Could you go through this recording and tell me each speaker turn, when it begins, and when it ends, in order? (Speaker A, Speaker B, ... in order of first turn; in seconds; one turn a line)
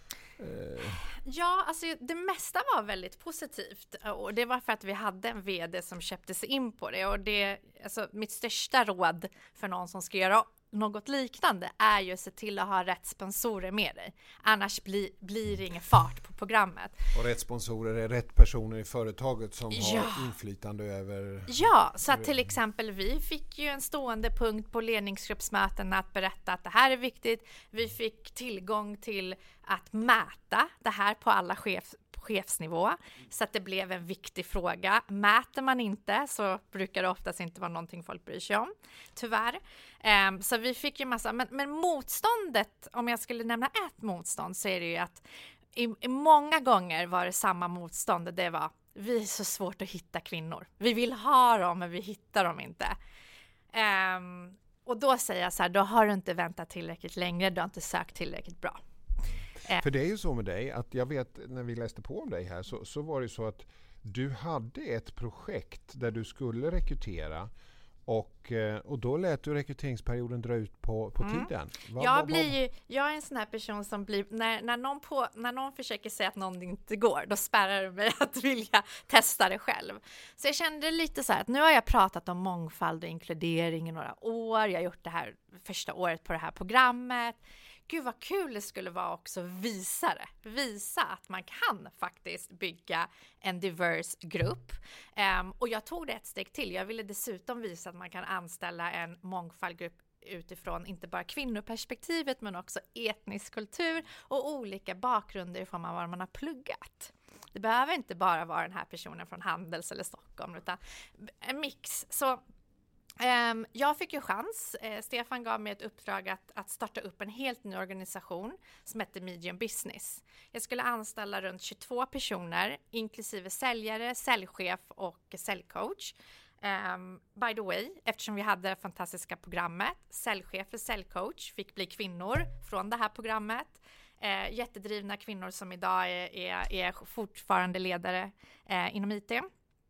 Speaker A: 0.4-1.0
Speaker B: 1.1-17.0
Speaker A: 17.1-22.3
Speaker B: 19.7-20.3
Speaker B: 21.5-45.2
Speaker B: 45.7-52.9
Speaker B: 53.7-58.8
Speaker A: 59.8-67.5
Speaker A: 68.0-72.5
Speaker B: 71.2-112.4
Speaker B: 113.2-139.5